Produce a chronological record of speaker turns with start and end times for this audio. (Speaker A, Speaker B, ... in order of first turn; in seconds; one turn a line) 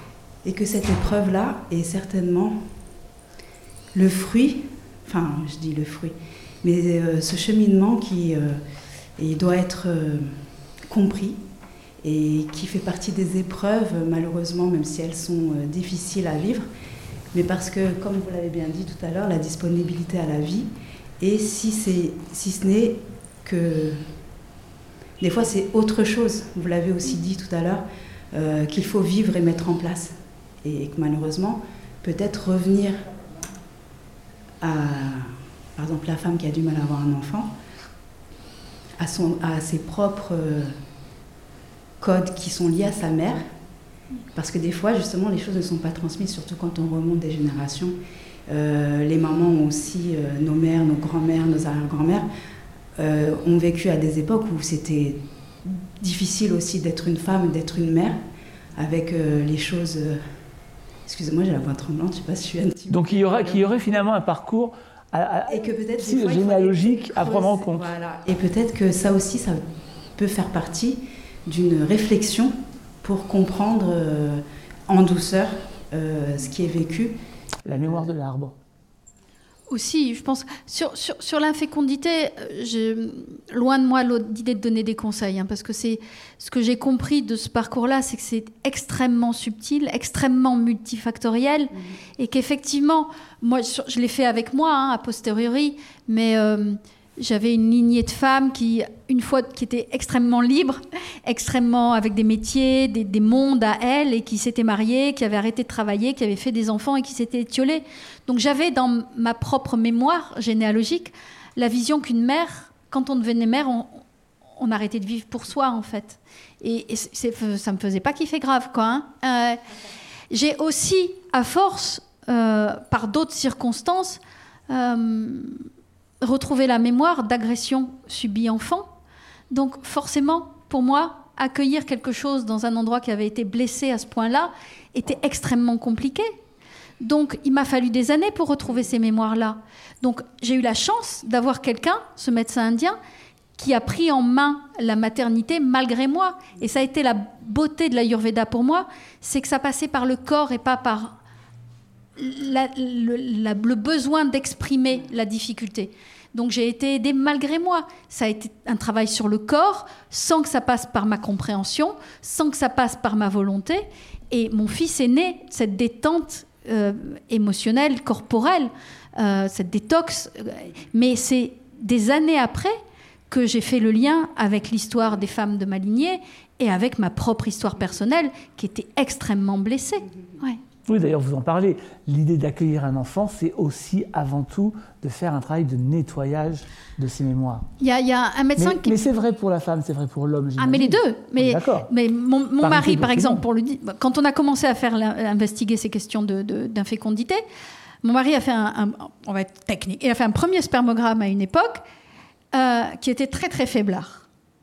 Speaker A: 0.4-2.6
Speaker A: 3.9-8.6
Speaker A: 9.2-11.4
Speaker A: 12.0-16.7
Speaker A: 17.3-24.1
Speaker A: 25.2-33.1
Speaker A: 34.6-37.5
Speaker A: 39.0-40.8
Speaker A: 42.0-43.5
Speaker A: 44.3-48.0
Speaker A: 48.5-52.3
Speaker A: 53.0-58.2
Speaker A: 58.8-60.4
Speaker A: 61.0-63.9
Speaker B: 62.9-67.9
Speaker A: 65.5-69.6
Speaker A: 70.2-77.2
Speaker B: 77.7-78.5
Speaker A: 77.8-78.0
Speaker C: 79.7-114.0
Speaker A: 91.8-92.0
Speaker C: 114.6-119.6
Speaker C: 120.3-125.6
Speaker C: 126.2-128.9
Speaker C: 129.5-136.3
Speaker C: 137.0-143.0
Speaker C: 143.6-151.2
Speaker C: 152.2-172.8
Speaker C: 173.3-180.6
Speaker B: 180.9-187.7
Speaker C: 187.8-189.0
Speaker B: 188.6-191.9
Speaker C: 190.6-197.4
Speaker B: 192.6-193.4
Speaker C: 198.0-201.8
Speaker C: 202.5-204.3